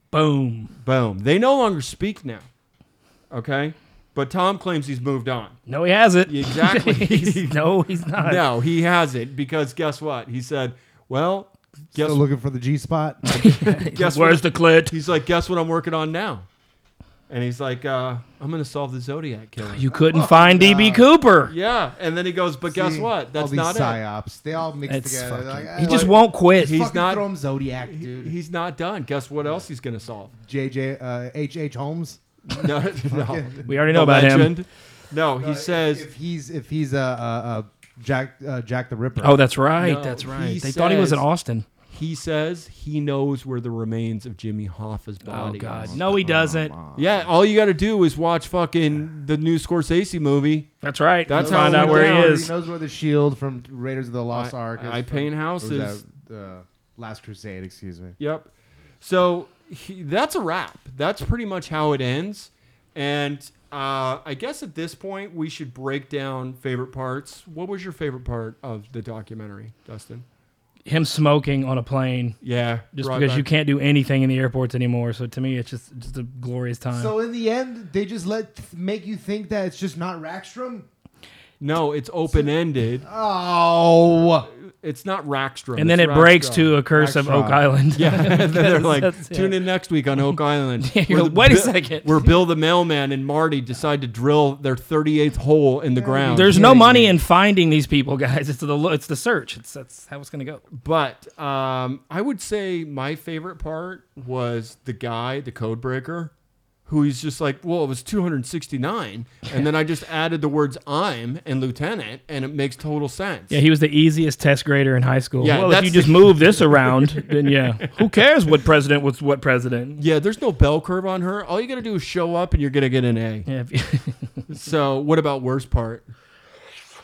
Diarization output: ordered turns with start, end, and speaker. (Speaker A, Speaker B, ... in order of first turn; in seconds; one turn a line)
Speaker A: 0.1-0.7
Speaker B: 0.8-2.5
Speaker B: 3.3-5.6
Speaker A: 5.7-8.4
Speaker B: 6.2-7.5
Speaker B: 8.2-12.2
Speaker C: 11.9-13.7
Speaker A: 13.3-14.9
Speaker B: 13.5-16.4
Speaker B: 17.3-19.9
Speaker A: 19.7-21.5
Speaker C: 19.9-21.1
Speaker B: 21.4-24.0
Speaker C: 22.7-28.3
Speaker A: 24.9-26.8
Speaker B: 26.6-27.3
Speaker B: 27.8-30.3
Speaker C: 30.3-32.2
Speaker B: 32.5-36.1
Speaker C: 33.0-33.7
Speaker A: 33.7-34.5
Speaker C: 35.4-39.4
Speaker A: 39.2-41.6
Speaker B: 39.8-41.2
Speaker B: 41.9-46.0
Speaker A: 45.2-46.7
Speaker C: 45.3-47.3
Speaker B: 47.0-50.7
Speaker A: 50.8-52.5
Speaker B: 51.2-52.4
Speaker C: 51.3-58.2
Speaker B: 54.3-56.0
Speaker B: 58.2-70.2
Speaker A: 70.8-72.4
Speaker B: 72.4-73.5
Speaker A: 73.0-77.1
Speaker C: 76.9-80.9
Speaker B: 81.6-83.1
Speaker C: 83.0-84.5
Speaker B: 84.6-86.8
Speaker A: 85.8-89.5
Speaker C: 86.9-87.7
Speaker B: 87.9-97.0
Speaker A: 90.3-92.3
Speaker C: 95.9-97.1
Speaker A: 96.2-100.6
Speaker B: 100.7-106.3
Speaker B: 106.8-113.6
Speaker A: 113.5-120.0
Speaker B: 115.4-117.9
Speaker B: 120.0-123.5
Speaker A: 123.5-124.5
Speaker B: 124.5-126.1